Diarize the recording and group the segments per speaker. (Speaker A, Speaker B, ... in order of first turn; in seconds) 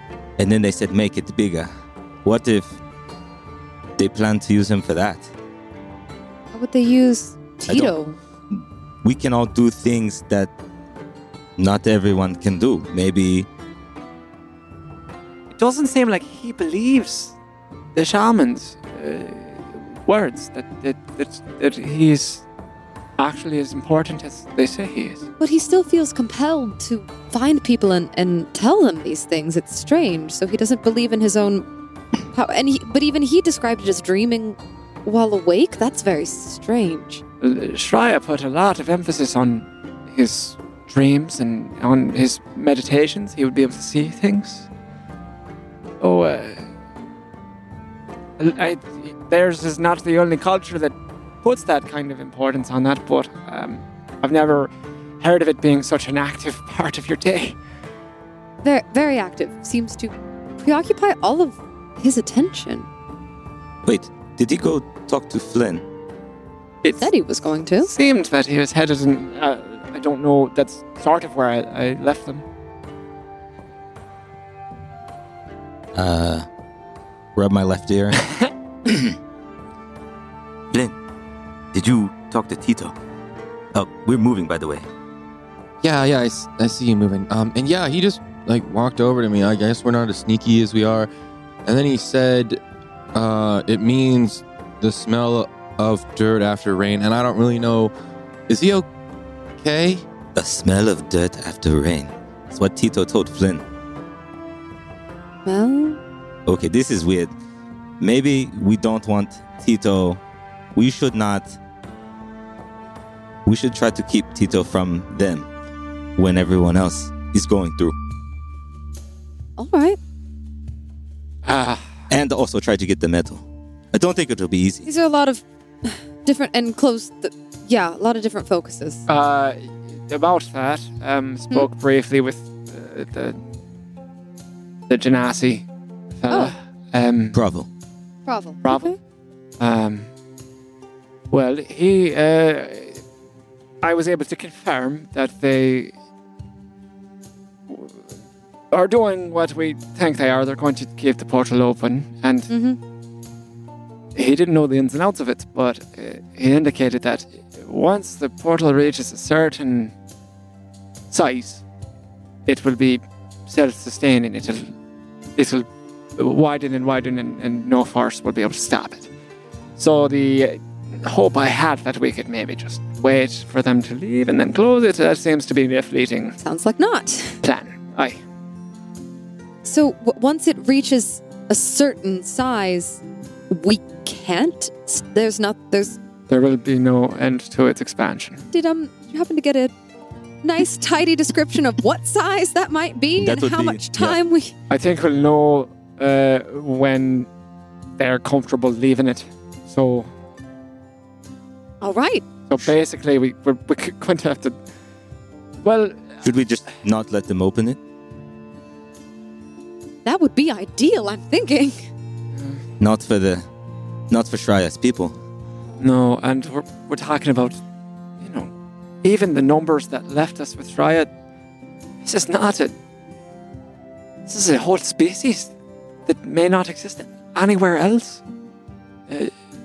Speaker A: 0.4-1.7, 2.2-2.8, 4.0-5.3, 7.7-7.9, 8.5-10.5, 11.6-13.5, 63.8-65.8, 76.0-76.5, 77.4-78.2, 78.9-79.2, 80.7-81.0, 81.7-83.0, 83.7-84.9, 100.3-103.6, 106.5-107.3, 108.0-110.2, 110.8-111.6, 113.5-115.5, 116.2-118.0, 122.1-124.9, 137.3-137.7, 193.2-194.2, 206.2-207.8, 212.8-213.5, 214.1-215.2
Speaker B: 6.5-8.2, 25.4-31.7, 32.3-37.2, 58.6-62.9, 67.0-67.9, 105.5-106.0, 119.6-120.0, 124.8-129.0, 138.3-139.0, 152.5-152.8, 176.4-177.4, 179.6-186.0, 188.5-189.7, 190.4-194.5, 201.8-202.2, 210.1-211.9
Speaker C: 15.5-17.4, 17.9-22.4, 23.2-25.3, 37.4-44.7, 46.0-46.7, 48.4-57.6, 66.8-67.1, 67.8-72.5, 121.5-121.9, 129.1-133.4, 134.9-137.4, 138.6-138.9, 139.6-140.1, 141.3-143.0, 143.8-145.9, 147.7-148.0, 148.7-152.5, 154.2-159.9, 161.1-161.6, 162.5-164.7, 165.4-165.7, 166.2-169.1, 169.8-176.4, 177.4-178.2, 186.3-188.4, 194.7-197.3, 198.0-200.1, 202.5-204.6, 205.6-206.2, 212.3-212.6, 215.8-217.6, 218.2-218.5, 219.0-221.1, 222.0-222.7, 224.3-225.5, 226.1-228.2, 229.1-229.3
Speaker D: 85.8-91.1, 91.7-92.6, 93.1-97.9, 98.5-98.9, 99.6-100.0